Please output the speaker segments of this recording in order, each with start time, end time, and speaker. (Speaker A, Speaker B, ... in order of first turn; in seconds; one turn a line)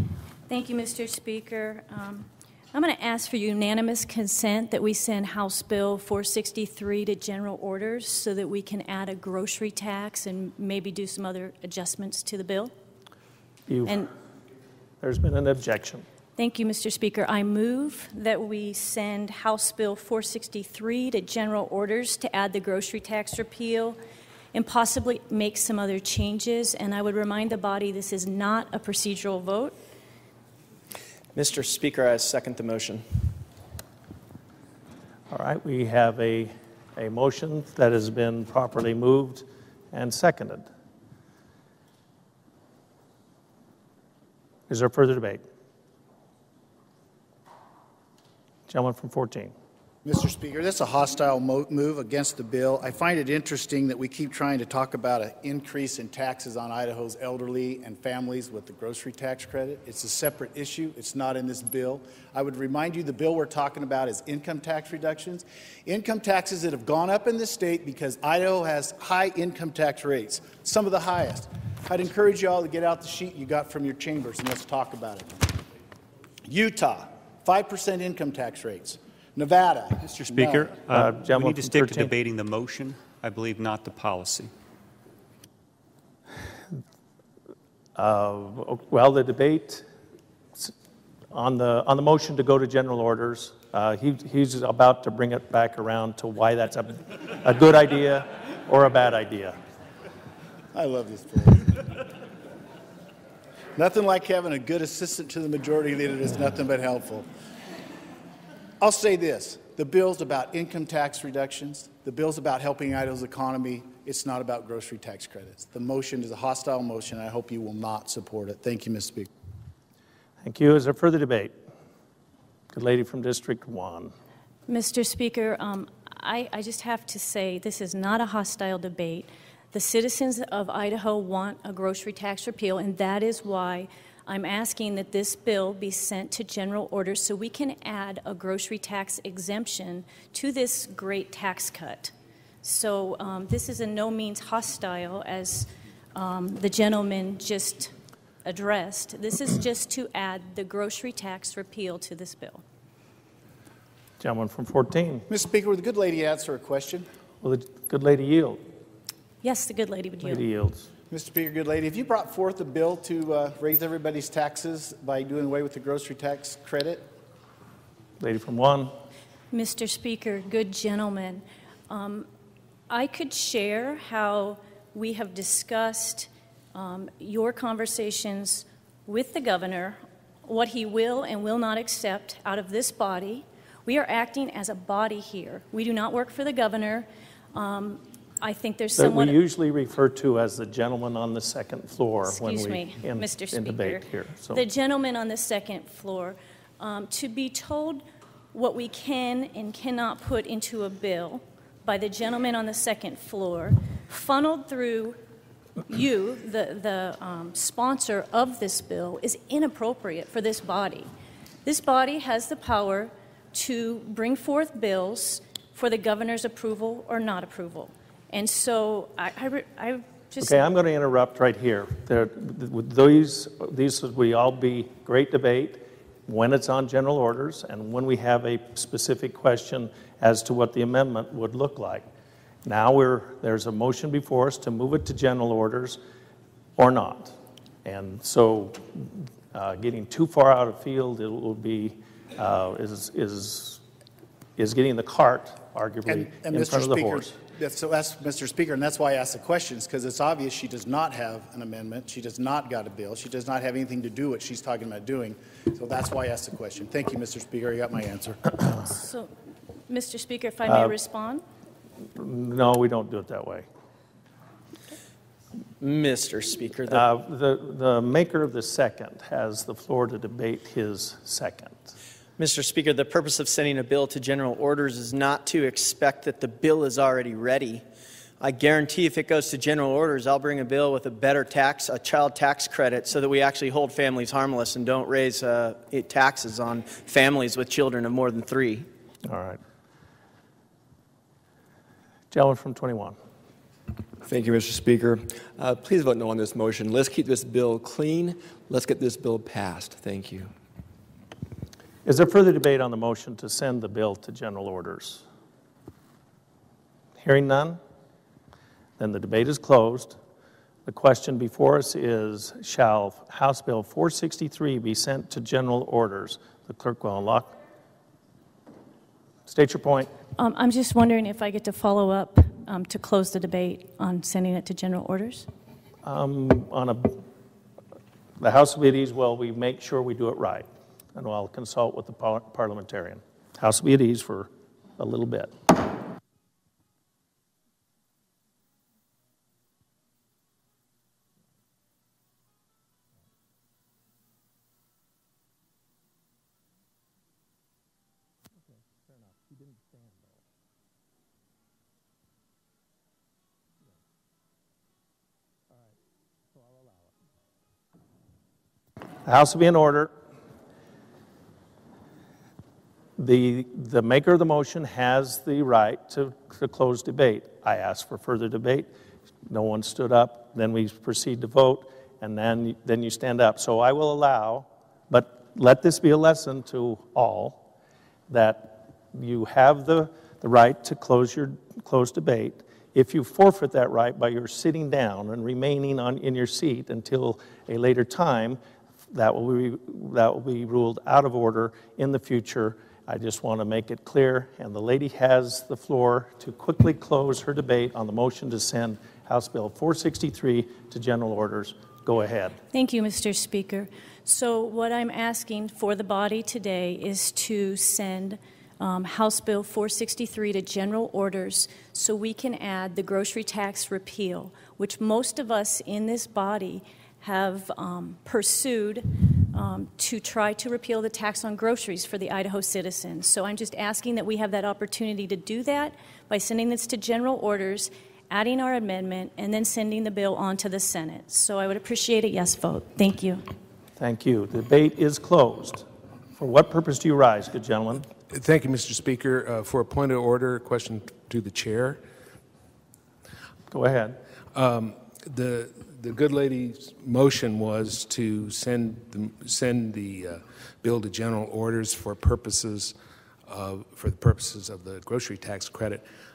Speaker A: 0.5-12.7
Speaker B: 13.7-14.0
Speaker B: 15.0-16.1
Speaker A: 16.4-24.0
Speaker A: 24.5-29.8
Speaker C: 31.4-33.0
Speaker B: 35.3-40.7
Speaker B: 44.7-45.4
Speaker B: 48.7-49.5
Speaker D: 50.0-75.4
Speaker D: 76.5-80.7
Speaker E: 80.0-84.5
Speaker B: 80.9-82.1
Speaker B: 88.0-89.9
Speaker B: 91.3-99.6
Speaker D: 100.7-101.8
Speaker D: 103.8-107.3
Speaker D: 108.8-119.3
Speaker B: 120.4-121.5
Speaker B: 122.7-124.1
Speaker A: 124.7-147.9
Speaker A: 148.4-152.6
Speaker B: 154.2-155.3
Speaker D: 155.3-157.1
Speaker B: 157.4-158.6
Speaker A: 159.4-160.4
Speaker B: 160.2-160.9
Speaker D: 161.1-167.1
Speaker B: 168.2-168.9
Speaker A: 169.5-172.3
Speaker A: 172.9-189.4
Speaker B: 189.0-194.6
Speaker A: 192.2-205.2
Speaker A: 205.9-211.1
Speaker A: 211.7-220.6
Speaker B: 220.4-232.1
Speaker B: 232.7-236.0
Speaker B: 236.8-243.8
Speaker B: 244.6-247.4
Speaker D: 246.1-258.5
Speaker A: 258.8-259.3
Speaker A: 259.9-261.4
Speaker B: 260.7-260.9
Speaker B: 262.1-263.7
Speaker C: 265.8-267.1
Speaker B: 266.9-271.9
Speaker C: 272.4-277.8
Speaker C: 278.4-288.9
Speaker B: 289.2-289.6
Speaker B: 292.3-293.2
Speaker F: 294.2-300.5
Speaker B: 302.1-305.2
Speaker B: 307.2-307.8
Speaker B: 309.0-310.2
Speaker B: 310.9-317.5
Speaker B: 319.5-320.1
Speaker A: 320.4-325.5
Speaker B: 326.0-327.2
Speaker B: 328.4-335.5
Speaker B: 348.6-350.4
Speaker B: 356.6-357.1
Speaker B: 359.2-360.1
Speaker B: 363.2-368.9
Speaker B: 369.5-377.6
Speaker B: 378.3-388.6
Speaker B: 389.1-402.6
Speaker A: 402.7-433.4
Speaker B: 434.0-438.1
Speaker G: 438.3-442.0
Speaker B: 443.7-444.2
Speaker G: 444.5-452.9
Speaker G: 453.5-456.1